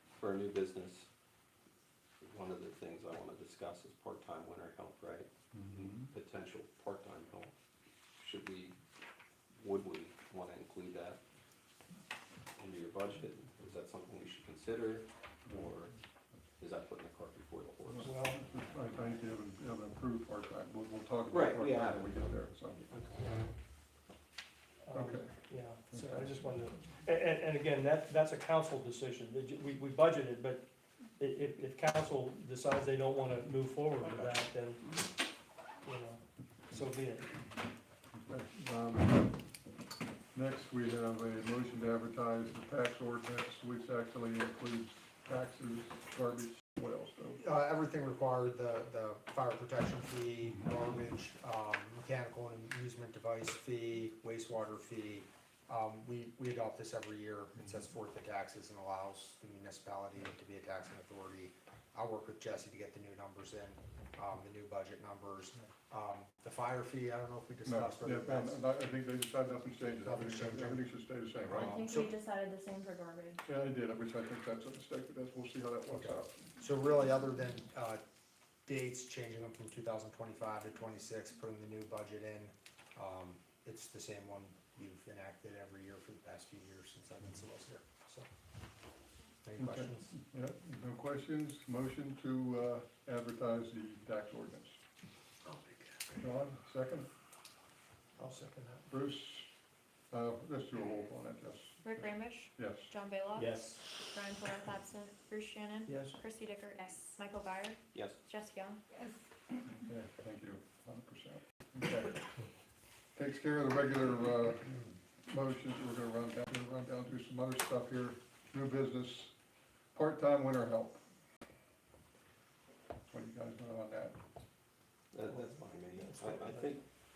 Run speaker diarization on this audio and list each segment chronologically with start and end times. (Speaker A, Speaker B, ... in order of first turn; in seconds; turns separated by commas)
Speaker A: 0.2-1.1, Speaker A: 2.2-7.5, Speaker B: 5.5-6.1, Speaker A: 8.2-8.8, Speaker A: 9.6-11.2, Speaker A: 12.6-15.9, Speaker B: 15.5-15.8, Speaker A: 16.6-18.1, Speaker B: 17.9-23.2, Speaker C: 18.0-18.4, Speaker A: 21.3-23.2, Speaker C: 24.8-30.7, Speaker B: 24.9-25.3, Speaker B: 25.9-26.4, Speaker C: 31.2-34.8, Speaker A: 34.0-34.3, Speaker C: 35.8-37.3, Speaker B: 38.1-39.3, Speaker B: 40.3-47.4, Speaker D: 47.4-68.6, Speaker B: 67.7-71.8, Speaker D: 70.0-70.8, Speaker E: 71.5-73.4, Speaker D: 71.5-72.1, Speaker B: 73.5-76.4, Speaker D: 75.9-78.0, Speaker D: 78.7-88.2, Speaker D: 89.4-90.1, Speaker B: 89.6-94.8, Speaker C: 89.8-90.1, Speaker C: 95.5-96.0, Speaker B: 96.2-97.1, Speaker C: 98.2-98.9, Speaker B: 98.9-99.5, Speaker B: 100.1-102.9, Speaker E: 101.8-108.8, Speaker C: 103.4-103.8, Speaker C: 105.9-106.2, Speaker A: 107.9-108.2, Speaker B: 109.7-112.2, Speaker B: 113.2-119.3, Speaker B: 119.9-121.0, Speaker B: 123.1-124.2, Speaker A: 125.1-126.8, Speaker C: 125.3-126.7